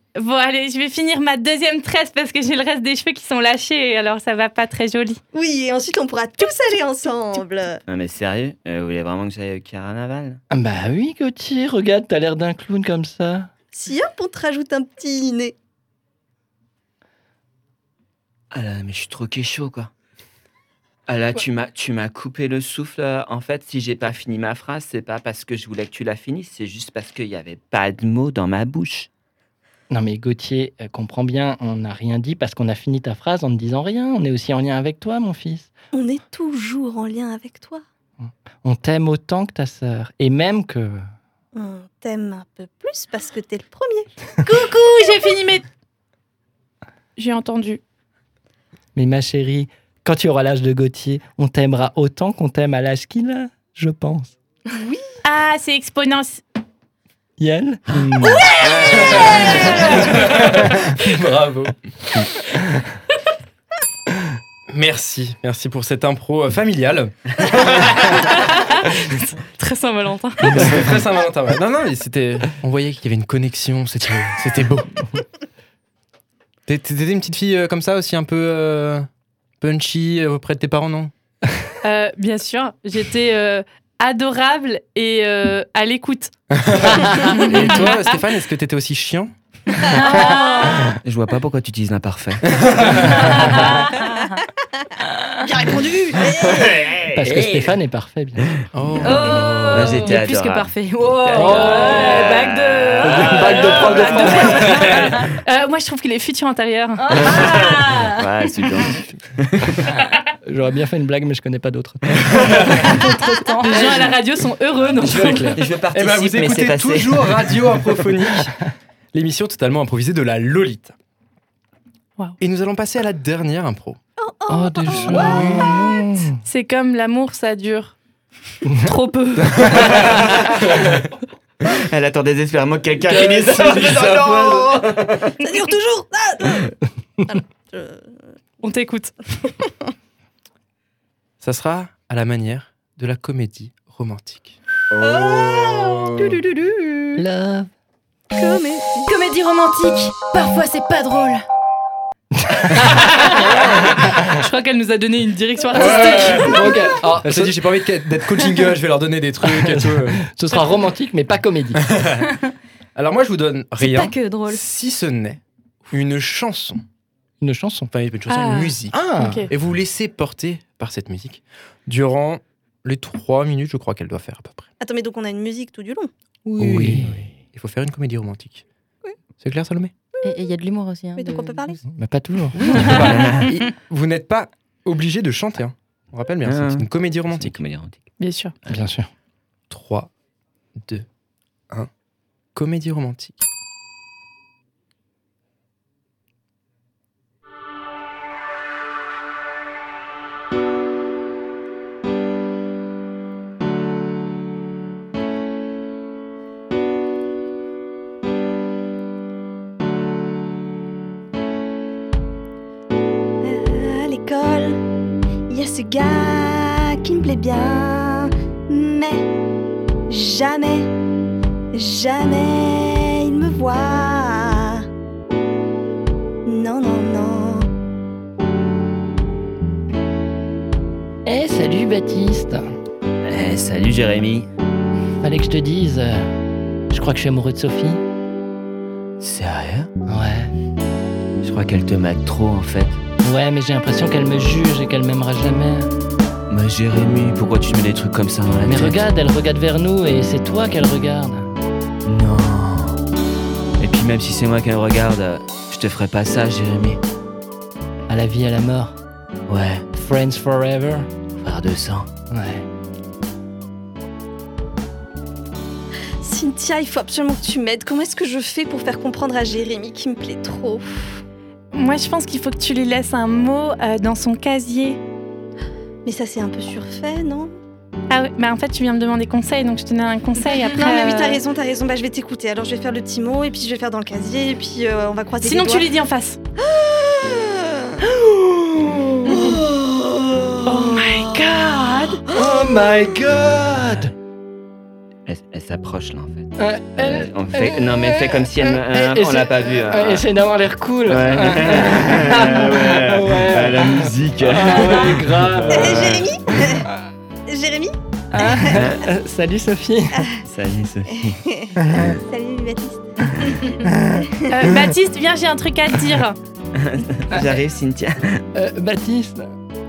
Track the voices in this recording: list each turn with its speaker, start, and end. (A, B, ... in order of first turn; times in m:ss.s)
0:00.2-0:05.2 A
0:05.3-0:07.8 B
0:07.9-0:10.4 C
0:10.5-0:13.5 D
0:13.7-0:15.6 B
0:18.5-0:19.9 C
0:21.1-0:29.1 C
0:29.9-0:35.7 D
0:35.9-0:37.8 B
0:38.2-0:41.1 D
0:41.6-0:44.3 B
0:44.4-0:45.7 A
0:47.2-0:47.8 A
0:49.0-0:54.4 D
0:54.7-0:55.0 B
0:55.2-0:56.4 A
0:57.4-0:58.5 D
0:58.2-1:00.2 B
0:58.6-1:00.0 C
0:58.9-1:02.3 E
1:04.7-1:08.3 E
1:08.1-1:10.8 A
1:10.4-1:15.1 E
1:16.7-1:19.1 E
1:19.6-1:21.1 E
1:21.8-1:26.3 A
1:26.5-1:29.3 E
1:27.0-1:28.2 A
1:29.9-1:31.0 A
1:30.9-1:33.5 C
1:32.5-1:33.3 E
1:33.5-1:33.8 A
1:35.4-1:36.9 B
1:36.3-1:37.7 C
1:37.1-1:38.6 D
1:38.7-1:39.6 E
1:39.0-1:43.9 F
1:39.6-1:44.3 C
1:41.3-1:42.3 D
1:41.6-1:47.6 A
1:43.0-1:44.7 D
1:44.6-1:45.3 F
1:44.8-1:45.1 E
1:47.0-1:48.2 F
1:47.1-1:49.9 C
1:50.4-1:53.0 D
1:52.5-1:52.9 E
1:52.8-1:55.6 A
1:55.0-1:58.6 E
1:55.1-1:57.8 C
1:59.1-2:00.9 E
2:02.4-2:04.0 E
2:04.2-2:06.2 B
2:04.5-2:06.4 D
2:05.2-2:05.5 E
2:06.4-2:08.0 A
2:08.7-2:10.0 A
2:10.0-2:10.6 C
2:11.6-2:15.3 C
2:13.4-2:13.9 D
2:13.8-2:14.9 E
2:15.4-2:16.7 B
2:17.2-2:18.1 B
2:18.6-2:19.1 A
2:21.4-2:24.6 E
2:25.0-2:27.2 B
2:27.2-2:27.7 D
2:28.4-2:29.1 B
2:29.1-2:31.4 F
2:32.4-2:34.3 D
2:33.8-2:36.9 A
2:35.7-2:36.7 E
2:36.3-2:37.7 D
2:37.2-2:40.3 E
2:39.4-2:41.9 D
2:41.8-2:42.3 E
2:43.0-2:46.8 E
2:43.8-2:44.6 F
2:47.4-2:47.9 D
2:47.9-2:49.0 E
2:48.3-2:49.5 A
2:48.9-2:49.5 D
2:49.5-2:54.7 E
2:54.8-2:56.1 B
2:56.4-2:58.6 E
2:56.6-2:57.3 D
2:59.4-2:59.9 E
3:00.2-3:01.8 F
3:01.2-3:01.8 B
3:01.9-3:03.1 D
3:02.5-3:07.6 E
3:03.1-3:03.4 C
3:06.4-3:08.1 C
3:08.2-3:08.6 A
3:08.7-3:09.1 D
3:09.7-3:10.1 E
3:10.8-3:11.1 E
3:12.6-3:13.4 E
3:33.4-3:34.8 B
3:35.5-3:39.3 B
3:40.1-3:40.9 B
3:41.7-3:44.9 B
3:46.5-3:47.7 B
3:51.2-3:52.8 D
3:53.3-3:54.5 C
3:55.2-3:56.4 D
3:56.9-3:58.0 D
3:59.2-3:59.9 C
4:00.1-4:00.5 D
4:01.4-4:03.0 C
4:03.2-4:05.9 D
4:06.5-4:09.0 C
4:08.6-4:11.5 D
4:12.0-4:13.0 C
4:13.8-4:17.0 C
4:18.1-4:19.0 D
4:19.5-4:19.8 C
4:19.9-4:21.1 D
4:21.4-4:22.1 C
4:22.3-4:22.7 D
4:26.2-4:31.2 B
4:31.7-4:35.0 A
4:36.0-4:37.6 B
4:38.1-4:41.4 A
4:40.7-4:45.9 B
4:45.4-4:46.4 A
4:46.6-4:48.0 B
4:48.3-4:49.6 A
4:49.3-4:51.0 B
4:49.3-4:49.6 D
4:50.7-4:52.2 A
4:52.3-4:54.1 D
4:55.3-5:00.3 C
4:56.6-5:06.2 D
5:01.1-5:06.4 C
5:05.7-5:06.9 B
5:07.5-5:08.8 B
5:08.3-5:10.3 D
5:08.6-5:09.0 C
5:10.4-5:12.2 C
5:11.2-5:13.8 B
5:11.8-5:12.1 D
5:13.8-5:14.3 D
5:14.3-5:14.7 B
5:14.5-5:16.4 A
5:16.8-5:18.4 C
5:18.5-5:19.5 D